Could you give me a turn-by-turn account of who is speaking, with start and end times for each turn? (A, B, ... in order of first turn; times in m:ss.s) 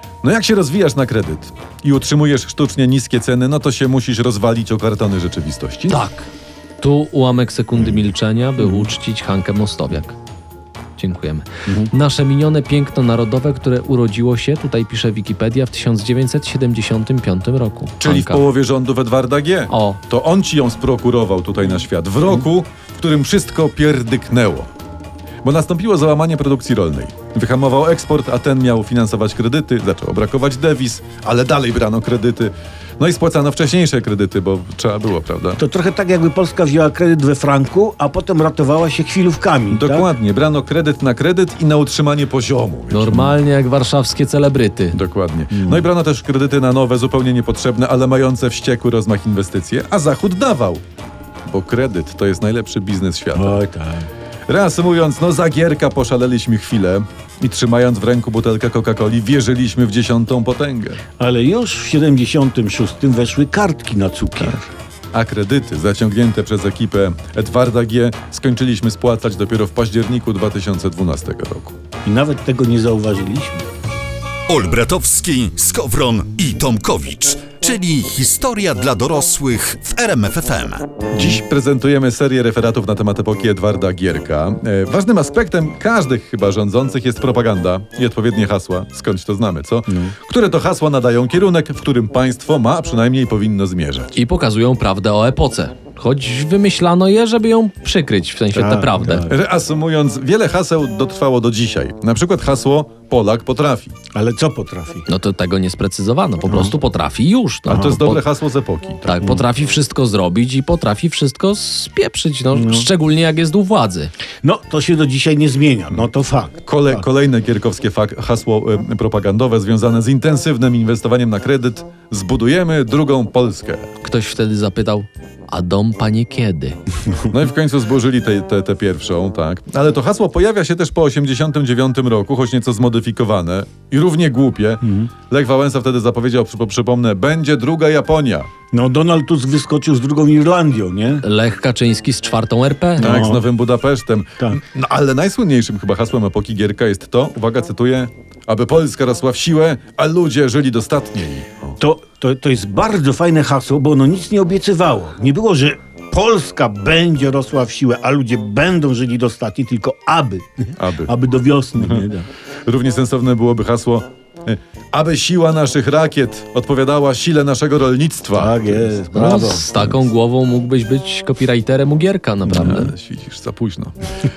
0:00.2-0:06.0 A
0:05.9-0:06.3 B
0:06.8-0:10.2 B
0:08.6-0:08.9 C
0:11.0-0:18.4 B
0:18.0-0:24.7 A
0:19.7-0:20.0 B
0:25.4-0:35.6 A
0:35.6-0:40.1 C
0:39.7-0:43.3 A
0:42.9-0:45.0 B
0:44.9-0:50.8 A
0:45.5-0:45.9 C
0:51.5-0:53.6 A
0:53.4-0:54.1 C
0:54.5-1:01.0 A
1:01.2-1:04.7 C
1:05.1-1:11.8 A
1:12.1-1:13.6 C
1:14.5-1:21.0 D
1:21.1-1:34.2 A
1:29.9-1:30.2 C
1:34.2-1:39.3 B
1:38.5-1:39.4 C
1:39.3-1:44.0 A
1:44.2-1:45.0 C
1:45.1-1:48.2 B
1:46.5-1:46.7 C
1:47.7-1:49.1 A
1:47.7-1:48.0 C
1:49.0-1:54.1 B
1:52.5-1:52.9 C
1:54.4-1:57.0 C
1:56.7-2:03.9 A
2:04.0-2:06.8 B
2:07.3-2:18.5 A
2:14.8-2:15.1 C
2:18.7-2:21.2 C
2:21.2-2:23.1 B
2:23.0-2:23.5 C
2:23.0-2:31.8 A
2:31.8-2:42.3 C
2:40.8-2:41.1 A
2:41.8-2:42.1 A
2:42.7-2:48.9 A
2:48.4-2:49.7 C
2:49.1-2:52.9 B
2:49.8-2:50.0 A
2:52.5-2:53.9 A